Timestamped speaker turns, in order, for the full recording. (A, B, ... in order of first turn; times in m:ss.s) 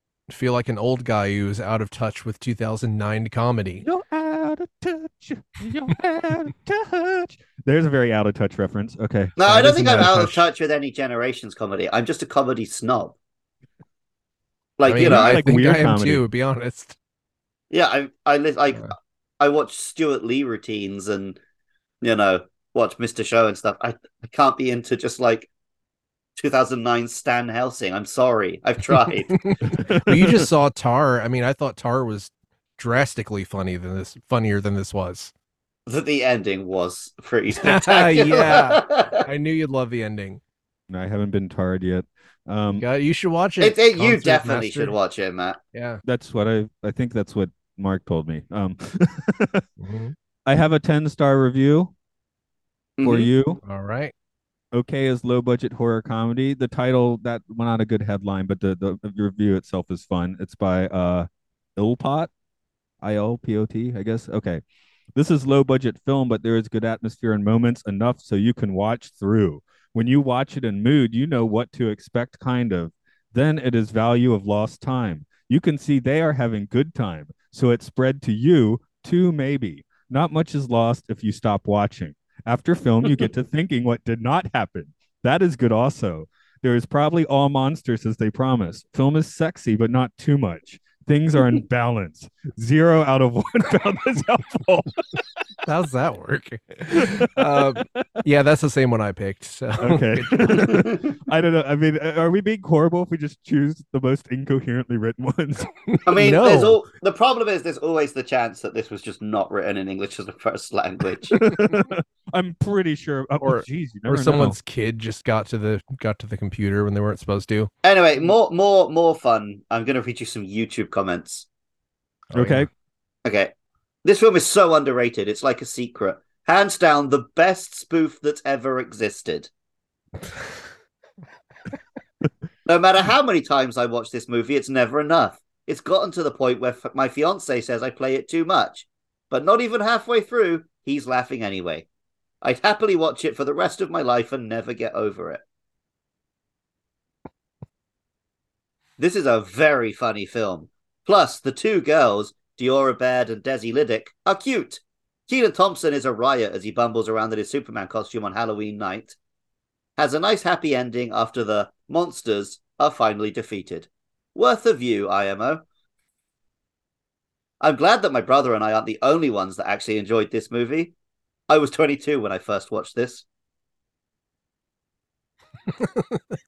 0:00.3-0:03.8 A
0:03.8-0:09.3 B
0:09.4-0:13.2 C
0:09.4-0:10.4 A
0:14.8-0:15.4 C
0:14.8-0:17.0 A
0:15.0-0:16.2 B
0:17.7-0:21.4 C
0:22.0-0:25.5 C
0:26.4-0:29.4 C
0:29.4-0:35.3 A
0:29.8-0:30.3 B
0:35.9-0:39.2 C
0:37.6-0:40.4 A
0:40.9-0:42.8 B
0:42.8-0:44.9 A
0:43.6-0:45.6 C
0:45.7-0:46.0 A
0:46.0-0:49.6 B
0:49.8-0:50.1 A
0:50.4-0:51.9 B
0:53.0-0:53.3 C
0:53.0-0:53.6 B
0:53.6-0:54.1 A
0:54.7-1:02.3 B
1:03.0-1:04.6 B
1:05.1-1:35.2 B
1:35.6-1:40.7 A
1:37.0-1:38.0 B
1:39.8-1:45.7 B
1:40.7-1:41.0 C
1:45.9-1:46.8 A
1:46.0-1:51.4 C
1:51.3-1:54.6 B
1:53.4-1:57.7 A
1:57.8-2:01.4 C
2:02.3-2:02.7 A
2:02.3-2:02.7 B
2:03.2-2:03.5 C
2:04.0-2:09.5 C
2:12.6-2:21.9 C
2:22.4-2:25.4 C
2:29.0-2:39.2 C
2:40.0-2:45.6 C
2:47.6-2:50.9 C
2:51.5-2:53.2 C
2:55.7-2:56.2 A